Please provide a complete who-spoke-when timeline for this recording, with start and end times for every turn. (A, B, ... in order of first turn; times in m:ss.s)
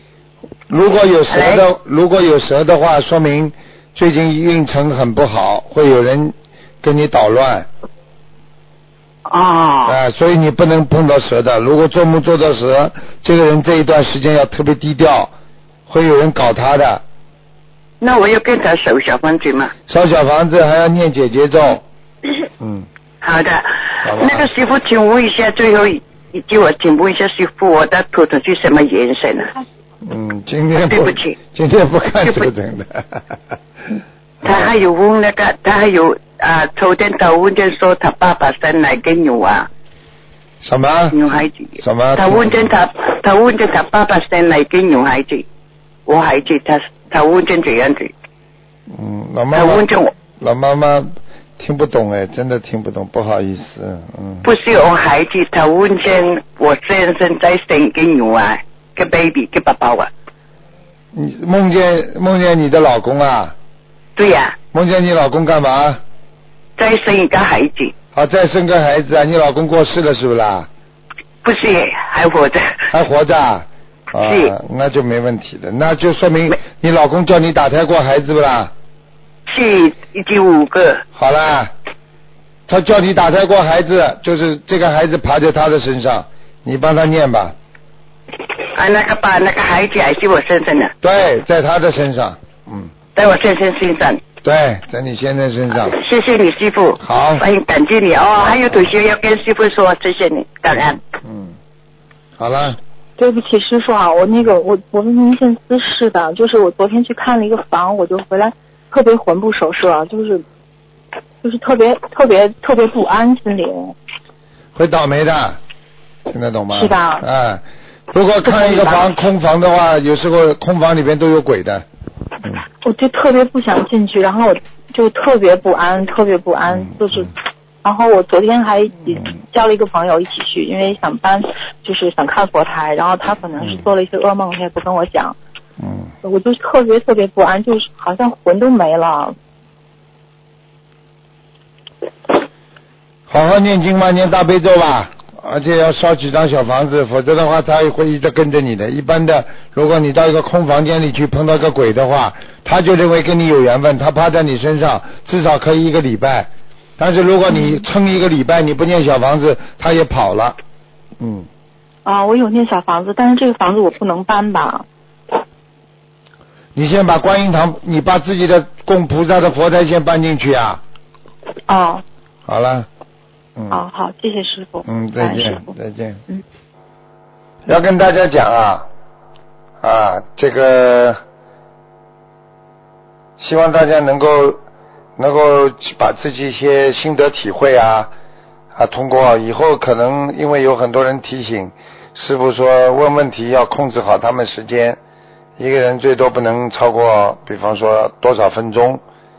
0:00.7-0:07.7 A
0:01.3-0:01.6 B
0:09.3-0:10.0 B
0:09.9-0:15.3 A
0:15.9-0:17.0 A
0:18.0-0:19.7 B
0:19.9-0:21.8 A
0:22.6-0:22.9 A
0:23.2-0:29.5 B
0:24.0-0:24.5 A
0:30.0-0:33.4 A
0:30.9-0:31.4 B
0:32.2-0:32.5 B
0:33.9-0:34.8 A
0:34.4-0:39.7 B
0:40.6-0:41.2 A
0:41.1-0:45.4 B
0:41.8-0:42.7 A
0:46.1-0:48.1 B
0:48.9-0:49.8 A
0:49.5-0:50.1 B
0:50.4-0:54.5 A
0:54.4-1:00.1 B
1:01.1-1:03.6 A
1:04.2-1:04.6 B
1:04.7-1:06.0 A
1:06.8-1:07.9 B
1:08.1-1:10.7 A
1:11.4-1:12.8 B
1:12.9-1:18.7 A
1:14.2-1:14.5 B
1:19.5-1:21.0 B
1:21.1-1:21.7 A
1:22.7-1:27.6 A
1:28.7-1:30.9 B
1:31.0-1:32.9 A
1:33.1-1:34.2 B
1:34.4-1:36.0 A
1:35.7-1:41.0 B
1:37.0-1:37.4 A
1:41.2-1:41.6 A
1:42.4-1:42.8 A
1:43.2-1:50.4 C
1:51.4-1:53.9 C
1:54.7-1:55.6 A
1:56.3-2:01.8 A
1:56.7-1:57.2 C
1:58.4-1:59.1 C
2:02.8-2:15.4 C
2:06.7-2:07.3 A
2:15.8-2:16.1 A
2:16.2-2:19.4 C
2:23.3-2:40.6 A
2:37.5-2:37.8 C
2:41.2-2:41.5 A
2:42.0-2:44.9 C
2:46.7-2:50.8 A
2:51.7-2:52.0 C
2:52.4-2:52.9 A
2:53.6-2:53.8 A
2:53.7-2:55.7 C
2:54.9-2:56.2 A
2:57.6-2:58.9 A
2:59.8-3:01.2 A
3:03.4-3:04.6 A
3:05.2-3:08.1 A
3:08.7-3:15.0 A
3:15.6-3:19.0 A